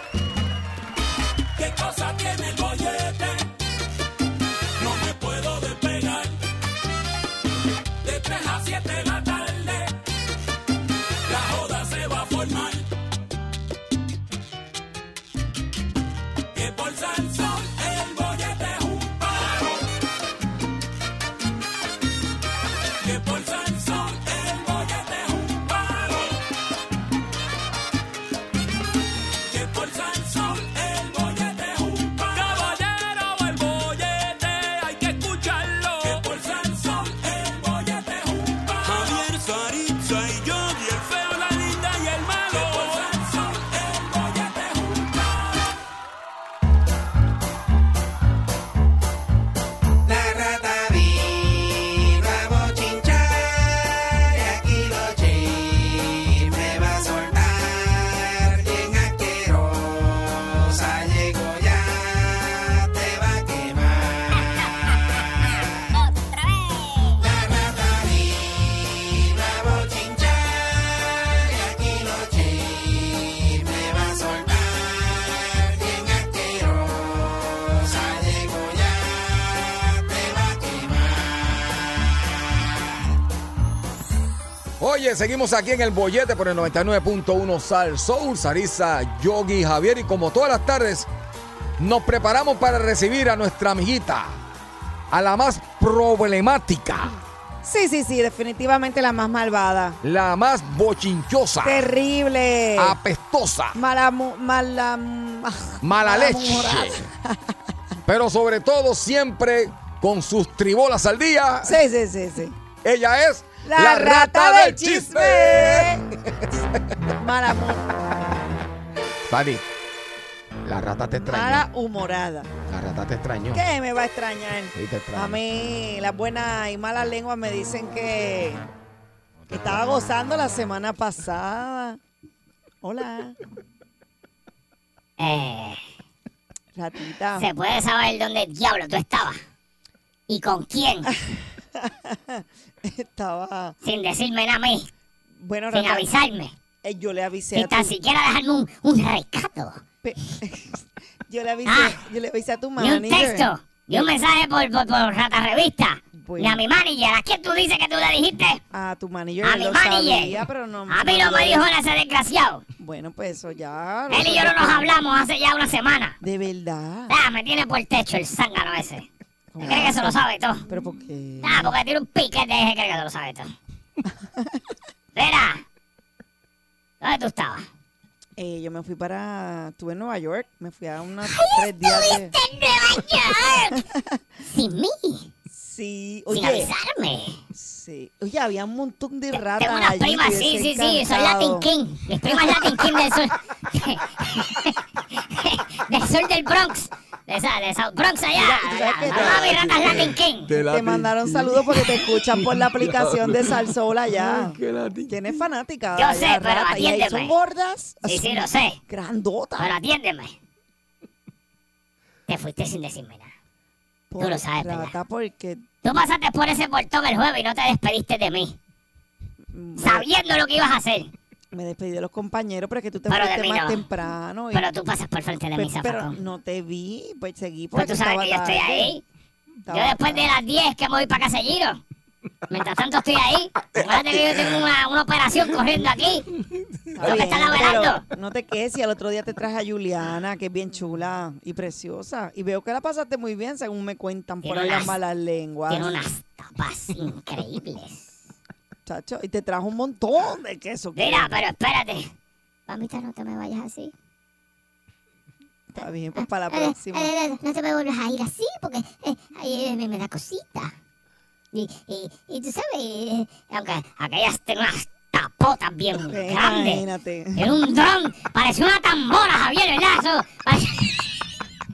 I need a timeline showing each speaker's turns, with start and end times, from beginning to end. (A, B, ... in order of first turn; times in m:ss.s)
0:01.6-0:03.4 A
0:04.8-0:06.4 A
0:08.0-0:09.9 A
0:11.3-0:12.8 A
0:16.5-0:19.8 A
0:23.0-0:26.4 A
0:29.5-0:45.6 A
0:50.0-1:05.9 B
1:04.4-1:04.7 C
1:05.9-1:07.2 C
1:07.2-1:22.9 B
1:24.8-1:31.1 D
1:31.8-1:34.4 D
1:35.1-1:37.1 D
1:37.6-1:40.0 E
1:40.0-1:41.9 D
1:41.6-1:43.0 E
1:42.8-1:43.8 D
1:43.7-1:47.4 E
1:45.8-1:47.0 D
1:48.0-1:51.8 D
1:51.6-1:52.6 E
1:52.8-1:56.5 D
1:53.6-1:56.0 E
1:57.2-1:58.4 E
1:59.2-1:59.6 D
2:00.6-2:01.6 D
2:01.2-2:02.5 E
2:02.7-2:03.6 D
2:03.5-2:08.6 E
2:04.7-2:05.4 D
2:09.5-2:12.0 E
2:12.8-2:13.4 E
2:15.2-2:15.8 C
2:16.7-2:17.5 E
2:17.4-2:19.4 C
2:20.3-2:21.1 C
2:21.1-2:23.8 E
2:23.8-2:24.9 C
2:25.4-2:26.1 E
2:25.7-2:26.5 C
2:26.8-2:27.9 E
2:27.5-2:29.8 C
2:30.0-2:34.0 E
2:31.6-2:31.9 C
2:32.8-2:38.6 C
2:36.1-2:36.6 E
2:38.7-2:41.6 E
2:39.4-2:42.6 C
2:42.8-2:44.9 E
2:44.1-2:46.2 C
2:46.2-2:47.1 E
2:47.1-2:49.1 C
2:49.5-2:51.8 E
2:49.6-2:50.6 C
2:51.4-2:53.5 C
2:55.1-2:55.6 C
2:57.0-2:57.6 C
2:58.4-3:02.3 E
3:01.3-3:03.8 C
3:03.7-3:04.2 E
3:04.4-3:05.3 C
3:05.5-3:06.7 E
3:06.3-3:07.4 C
3:07.5-3:11.7 E
3:09.3-3:20.5 C
3:12.2-3:12.8 E
3:18.3-3:19.6 E
3:19.1-3:25.1 D
3:20.6-3:29.8 E
3:26.0-3:27.3 C
3:28.0-3:28.8 C
3:29.6-3:30.4 C
3:32.3-3:33.3 C
3:34.1-3:35.6 E
3:34.2-3:34.9 C
3:35.8-3:38.6 C
3:39.5-3:40.0 E
3:39.8-3:41.1 C
3:41.5-3:44.7 E
3:43.1-3:43.8 C
3:44.5-3:46.2 C
3:45.5-3:48.9 E
3:47.7-3:49.0 C
3:49.6-3:50.3 E
3:49.7-3:51.8 C
3:52.5-3:56.2 C
3:53.7-3:54.5 D
3:56.9-4:06.0 E
3:57.0-3:58.0 C
4:04.4-4:05.0 C
4:05.7-4:08.2 C
4:08.8-4:11.3 E
4:11.0-4:12.1 C
4:12.7-4:13.9 C
4:15.7-4:17.1 E
4:16.2-4:20.7 C
4:21.5-4:26.8 C
4:26.1-4:27.5 E
4:27.4-4:31.1 C